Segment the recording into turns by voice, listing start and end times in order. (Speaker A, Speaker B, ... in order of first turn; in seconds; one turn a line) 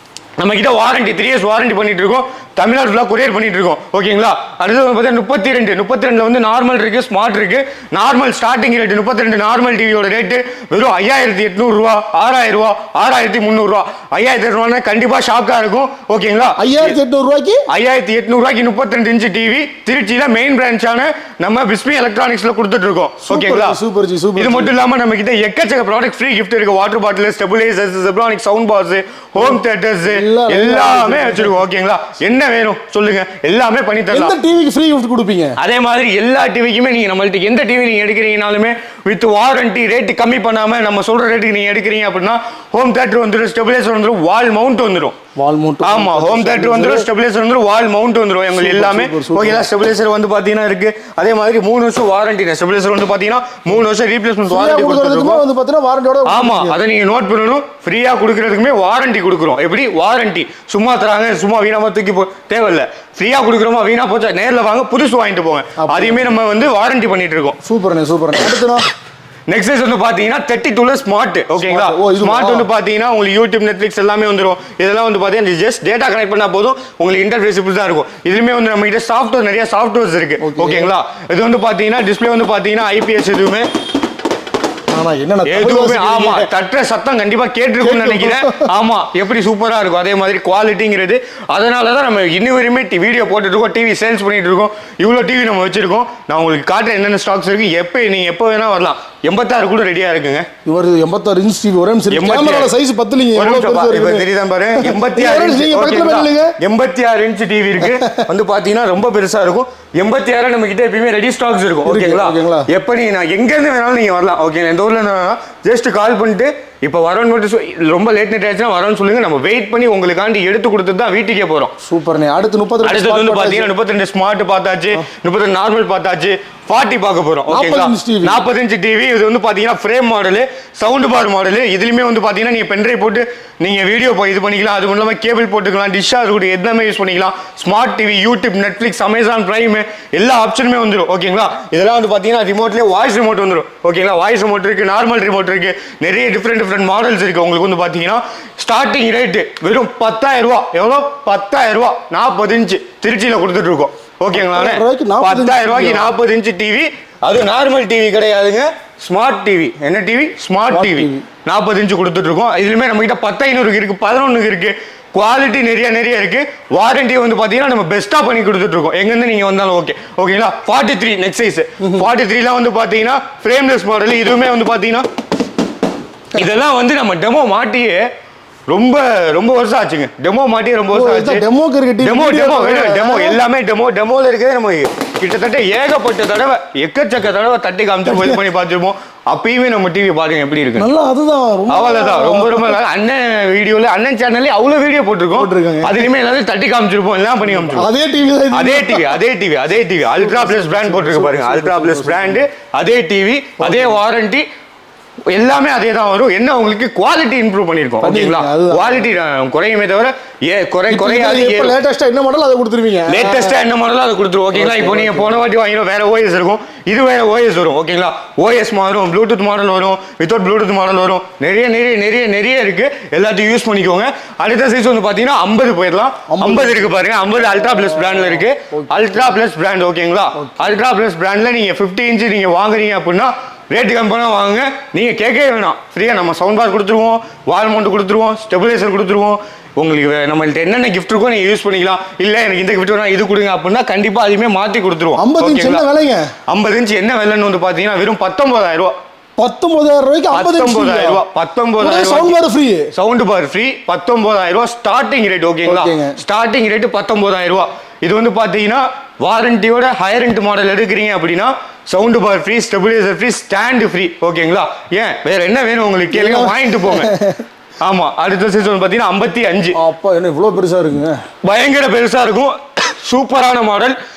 Speaker A: 0.4-16.9
Speaker B: 16.6-17.6
Speaker A: 17.7-23.8
Speaker B: 23.3-24.7
Speaker A: 24.4-34.3
Speaker B: 30.1-31.6
Speaker B: 34.1-35.6
Speaker A: 35.6-45.1
Speaker B: 45.4-47.0
Speaker A: 45.8-55.4
Speaker B: 48.5-49.6
Speaker B: 54.5-56.7
Speaker A: 56.2-67.6
Speaker B: 65.8-66.3
Speaker B: 67.6-68.9
Speaker A: 69.5-83.7
Speaker B: 71.6-72.6
Speaker B: 80.4-80.9
Speaker B: 84.9-86.5
Speaker A: 85.4-100.5
Speaker B: 87.8-88.6
Speaker B: 100.6-104.2
Speaker A: 102.1-102.7
Speaker A: 103.3-121.7
Speaker B: 104.8-106.5
Speaker B: 107.8-108.2
Speaker B: 111.8-112.7
Speaker B: 121.8-123.7
Speaker A: 122.8-175.0
Speaker B: 127.5-128.4
Speaker B: 154.3-156.1
Speaker B: 160.7-161.2
Speaker A: 176.3-178.0
Speaker A: 178.7-181.4
Speaker B: 180.9-183.4
Speaker A: 182.0-190.9
Speaker B: 188.1-188.4
Speaker B: 190.8-192.8
Speaker A: 191.7-197.9
Speaker B: 195.3-196.0
Speaker B: 197.5-199.1
Speaker A: 198.5-204.4
Speaker B: 200.2-202.4
Speaker B: 203.6-203.9
Speaker A: 205.3-211.7
Speaker B: 208.0-209.0
Speaker B: 210.9-213.5
Speaker A: 213.1-245.8
Speaker B: 214.5-215.4
Speaker B: 226.3-226.9
Speaker B: 227.5-228.8
Speaker B: 230.4-230.7
Speaker B: 245.2-246.3
Speaker A: 246.5-248.9
Speaker B: 249.4-251.2
Speaker A: 250.3-252.4
Speaker B: 251.8-252.9
Speaker A: 252.9-267.1
Speaker B: 255.7-256.2
Speaker B: 266.1-267.4
Speaker A: 267.8-269.7
Speaker B: 269.7-271.2
Speaker A: 271.4-274.0